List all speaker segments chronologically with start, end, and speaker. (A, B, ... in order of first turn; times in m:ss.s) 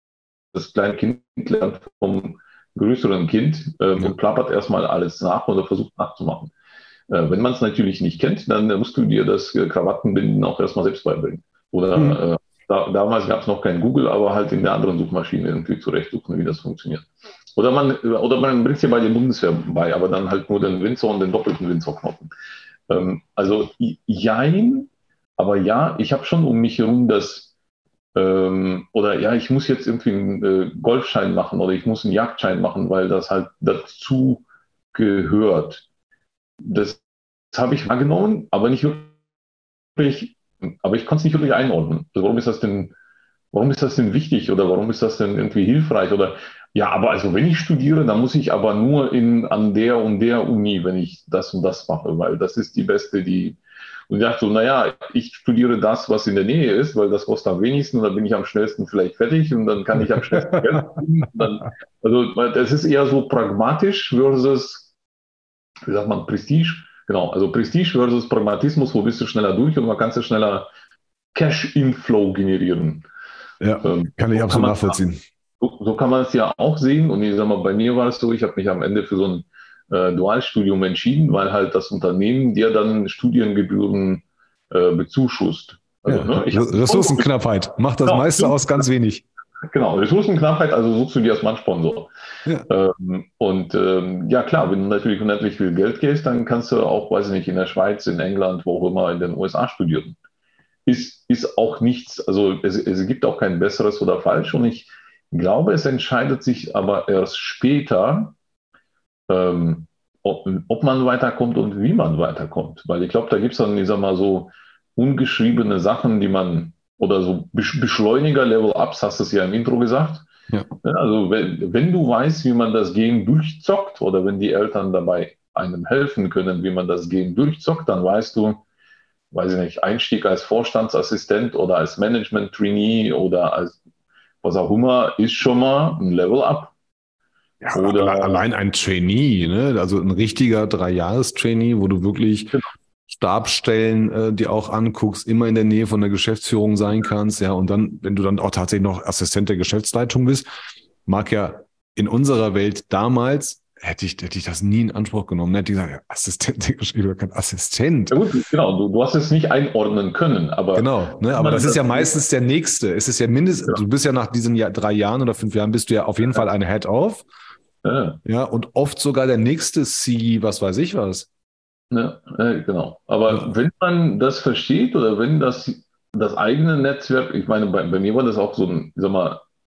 0:00.5-0:06.5 A
0:07.1-0:22.3 A
0:22.9-0:27.5 A
0:28.2-0:35.8 A
0:36.6-0:39.2 A
0:40.0-0:42.9 A
0:43.5-1:04.9 A
1:00.3-1:01.0 B
1:05.9-1:10.7 A
1:11.3-1:13.0 A
1:13.6-1:15.2 B
1:13.8-1:15.0 A
1:15.6-1:27.3 A
1:26.1-1:29.2 B
1:28.0-1:28.8 A
1:29.7-1:32.1 A
1:32.7-1:40.2 A
1:40.9-1:48.4 A
1:49.3-2:00.2 A
2:00.8-2:08.6 A
2:09.3-2:13.8 A
2:14.4-2:16.7 A
2:17.6-2:30.5 B
2:17.7-2:18.4 A
2:31.1-2:38.2 B
2:38.1-2:42.1 A
2:40.7-2:47.2 B
2:47.8-2:48.2 A
2:48.2-2:51.3 B
2:51.9-2:59.4 A